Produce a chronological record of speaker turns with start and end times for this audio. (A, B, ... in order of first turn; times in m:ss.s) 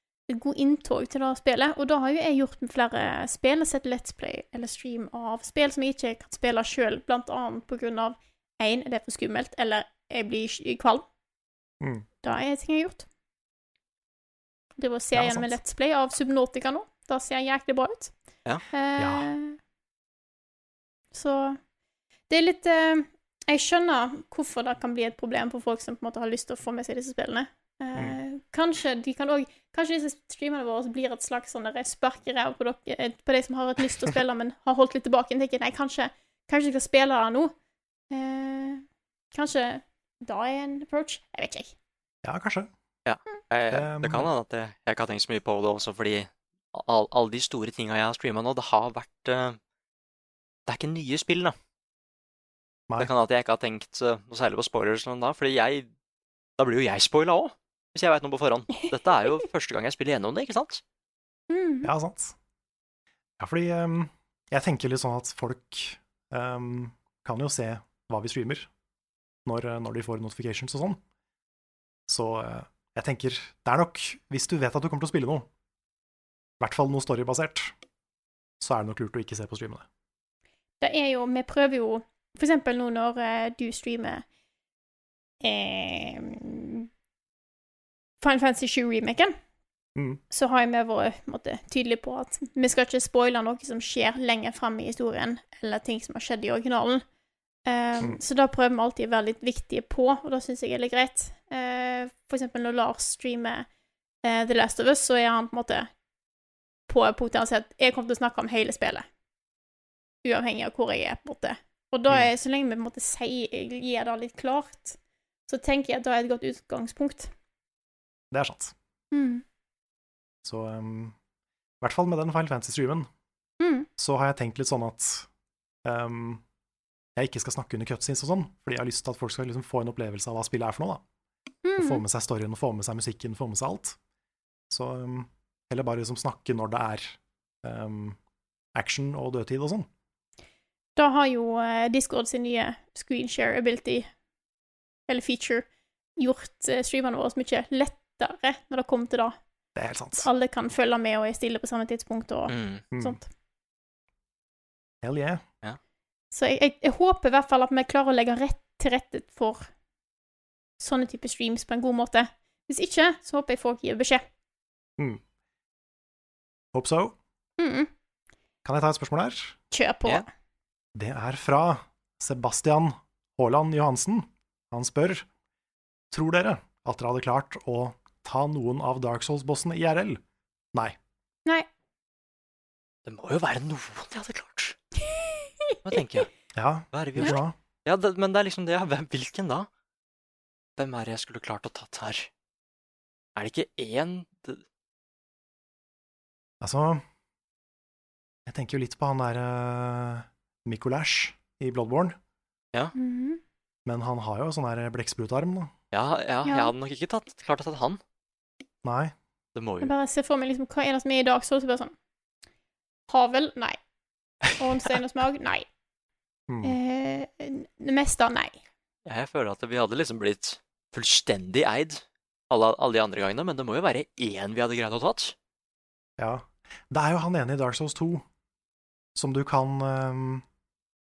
0:00.3-0:11.0 A
0:12.2-0:13.0 A
0:14.8-0:18.1 A
0:15.1-0:15.6 B
0:18.7-0:19.6 A
0:19.0-0:19.3 B
0:21.1-0:21.6 A
0:22.3-0:37.5 A
0:38.1-0:41.7 A
0:42.2-0:42.7 B
0:43.0-0:49.6 C
0:43.7-0:44.3 B
0:50.6-0:51.6 C
0:53.0-0:55.9 C
0:56.6-1:00.8 C
1:01.5-1:01.9 A
1:01.8-1:02.4 B
1:03.4-1:08.7 B
1:09.4-1:11.0 B
1:12.1-1:15.5 B
1:16.6-1:17.7 B
1:18.6-1:19.8 B
1:20.8-1:24.2 A
1:25.4-1:26.9 A
1:28.2-1:29.4 A
1:30.3-1:37.0 A
1:37.6-1:43.6 A
1:44.2-1:45.9 A
1:46.9-1:49.0 A
1:50.2-1:57.3 A
1:58.3-1:58.7 B
1:59.1-1:59.4 A
2:00.4-2:01.2 B
2:01.8-2:03.1 B
2:03.6-2:03.9 A
2:04.0-2:05.3 B
2:05.8-2:06.4 B
2:07.2-2:11.0 B
2:11.6-2:12.0 A
2:11.8-2:14.0 B
2:14.7-2:18.2 B
2:18.7-2:19.9 B
2:21.0-2:24.1 A
2:25.1-2:25.6 A
2:26.2-2:29.4 A
2:29.7-2:30.3 B
2:30.1-2:33.2 A
2:32.5-2:32.8 C
2:32.9-2:33.2 B
2:35.0-2:35.4 B
2:36.3-2:39.7 A
2:40.8-2:44.2 A
2:46.7-2:47.2 B
2:47.6-2:47.9 A
2:48.6-2:49.6 B
2:49.7-2:50.3 A
2:50.9-2:55.3 B
2:56.1-3:00.2 B
3:03.0-3:04.8 C
3:05.8-3:06.3 C
3:06.5-3:07.6 B
3:06.9-3:09.7 C
3:10.8-3:12.3 C
3:13.4-3:14.6 C
3:16.6-3:17.0 B
3:18.4-3:22.2 B
3:22.9-3:23.4 A
3:23.8-3:25.7 B
3:25.9-3:28.0 C
3:26.4-3:26.7 A
3:28.8-3:29.1 B
3:29.6-3:29.9 C
3:29.8-3:31.9 A
3:33.1-3:33.8 A
3:34.4-3:34.7 C
3:34.6-3:35.6 A
3:36.5-3:36.8 B
3:36.6-3:38.6 A
3:39.0-3:45.4 C
3:46.2-3:48.2 B
3:49.1-3:50.4 B